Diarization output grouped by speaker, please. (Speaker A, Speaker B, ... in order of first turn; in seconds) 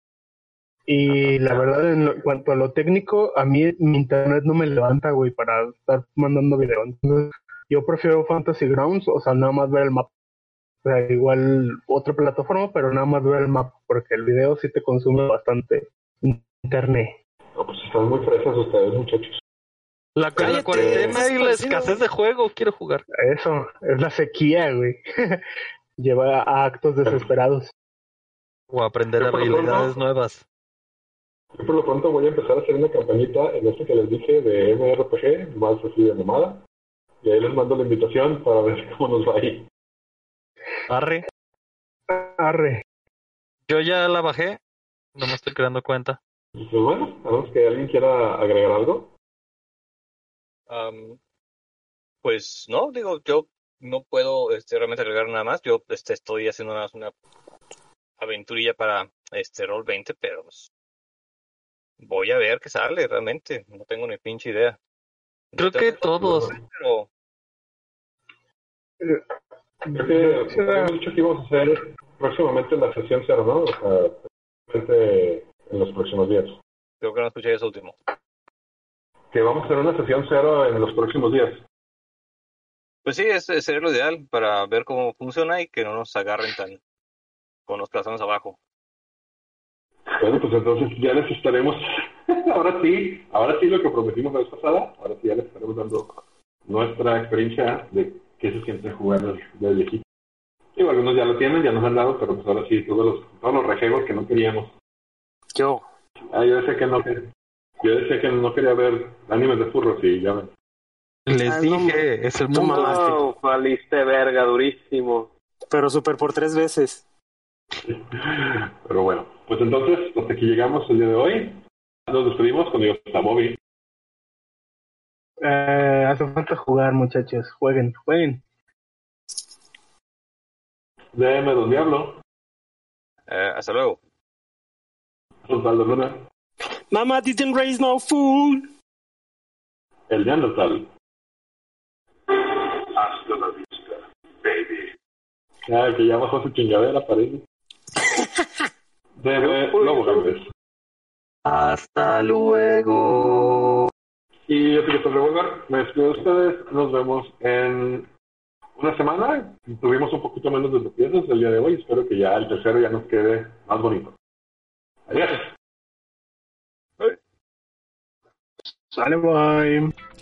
Speaker A: 0.9-10.1, 10.8-17.2, 23.1-25.4, 26.0-27.7, 42.1-42.8, 69.8-71.0, 125.4-128.4, 168.9-169.9
Speaker B: 17.6-19.4, 20.4-21.2, 29.2-29.9, 31.6-36.6, 37.2-39.7, 46.6-49.1, 69.9-76.6, 79.3-81.6, 90.2-100.0, 100.8-104.7, 106.3-107.3, 107.8-110.5, 117.8-123.6, 131.1-132.2, 135.4-136.2, 140.1-140.9, 142.3-144.9, 145.7-147.4, 149.2-150.4, 154.5-158.1, 158.8-164.2, 165.1-165.5
Speaker C: 20.2-23.1, 28.7-30.4, 40.9-41.2, 43.7-44.6, 45.1-46.2, 65.6-66.5, 111.3-113.2, 151.4-153.9
Speaker D: 20.4-22.0, 105.5-105.8, 111.5-112.0, 112.6-113.0, 115.7-117.0, 136.9-138.7
Speaker E: 50.7-51.2, 52.2-57.1, 58.2-60.7, 62.0-64.8, 65.5-67.1, 77.0-78.0, 83.0-86.8, 87.7-88.6, 133.3-134.0
Speaker F: 112.5-115.3, 149.4-150.2